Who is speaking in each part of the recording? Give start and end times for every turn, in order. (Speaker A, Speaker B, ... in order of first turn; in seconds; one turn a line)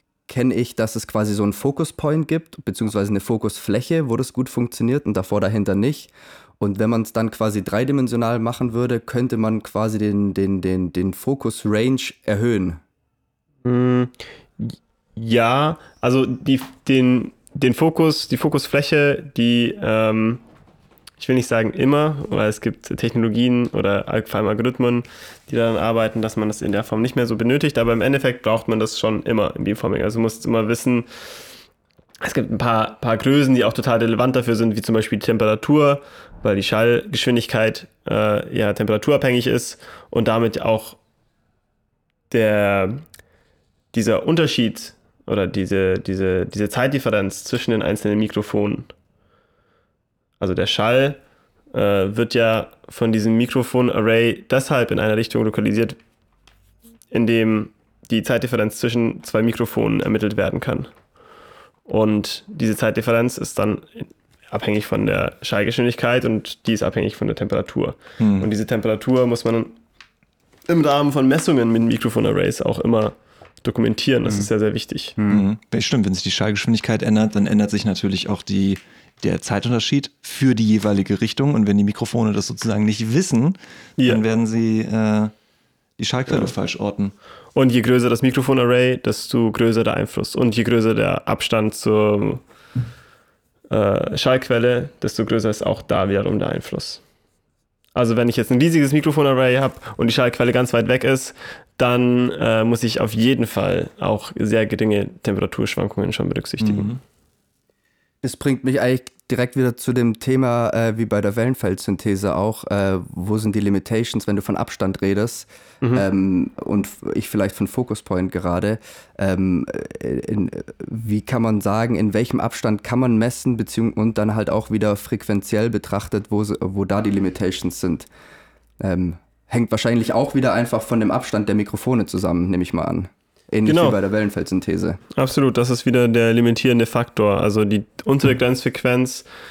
Speaker A: 0.3-12.8
Speaker B: 13.6-20.4
Speaker B: 21.2-31.1
Speaker B: 32.2-41.0
Speaker B: 42.3-43.0
Speaker B: 43.9-48.9
Speaker B: 50.4-51.2
Speaker B: 51.7-56.0
Speaker B: 57.1-60.9
Speaker B: 61.9-69.8
Speaker C: 68.2-68.5
Speaker B: 70.7-75.2
Speaker A: 75.2-75.5
Speaker C: 75.3-85.3
Speaker C: 86.0-87.1
Speaker B: 87.5-92.4
Speaker B: 93.7-97.0
Speaker B: 97.9-106.9
Speaker C: 106.6-107.0
Speaker A: 108.2-128.1
Speaker A: 128.8-135.0
Speaker B: 133.7-134.0
Speaker B: 135.1-139.3